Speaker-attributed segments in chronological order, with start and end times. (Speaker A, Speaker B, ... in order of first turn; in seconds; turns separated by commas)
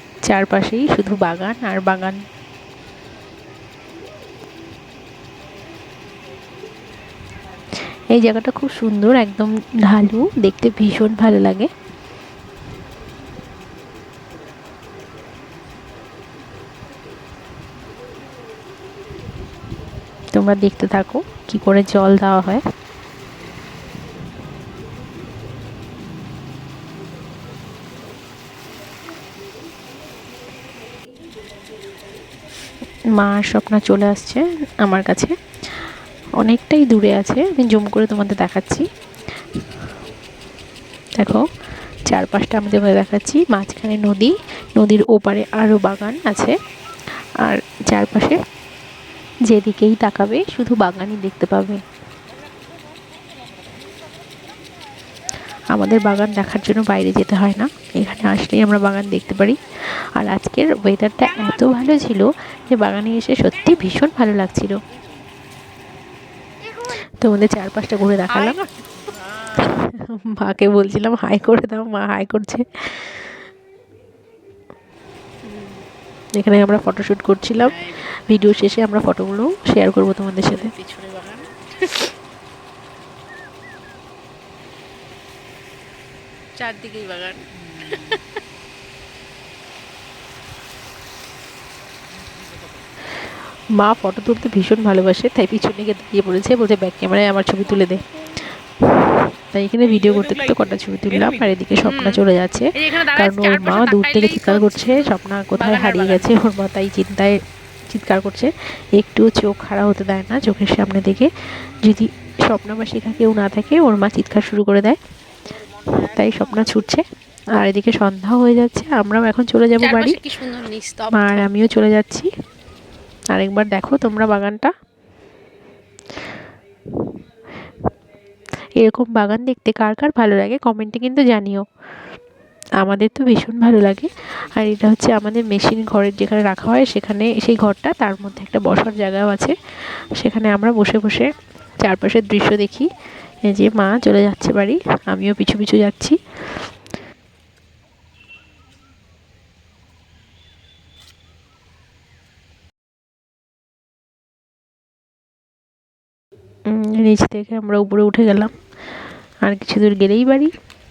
Speaker A: 0.2-2.2, Speaker A: 8.1-11.7, Speaker A: 20.3-22.6, Speaker A: 33.1-35.3, Speaker A: 36.4-38.9, Speaker A: 41.2-41.4, Speaker A: 42.1-46.6, Speaker A: 47.4-48.4, Speaker A: 49.5-51.8, Speaker A: 55.7-64.8, Speaker A: 66.8-68.7, Speaker A: 69.5-73.3, Speaker B: 75.5-75.8, Speaker A: 76.4-80.7, Speaker B: 77.7-78.0, Speaker B: 80.5-82.1, Speaker B: 86.6-88.2, Speaker A: 93.8-98.0, Speaker A: 98.8-107.4, Speaker B: 101.8-102.2, Speaker B: 102.8-106.3, Speaker A: 107.9-111.3, Speaker A: 111.8-115.0, Speaker A: 116.0-117.0, Speaker A: 117.6-120.2, Speaker B: 119.8-121.5, Speaker A: 121.1-122.3, Speaker A: 123.3-124.7, Speaker A: 128.8-131.7, Speaker A: 132.8-139.6, Speaker A: 140.2-142.9, Speaker A: 143.5-146.2, Speaker A: 156.7-158.6, Speaker A: 159.4-160.6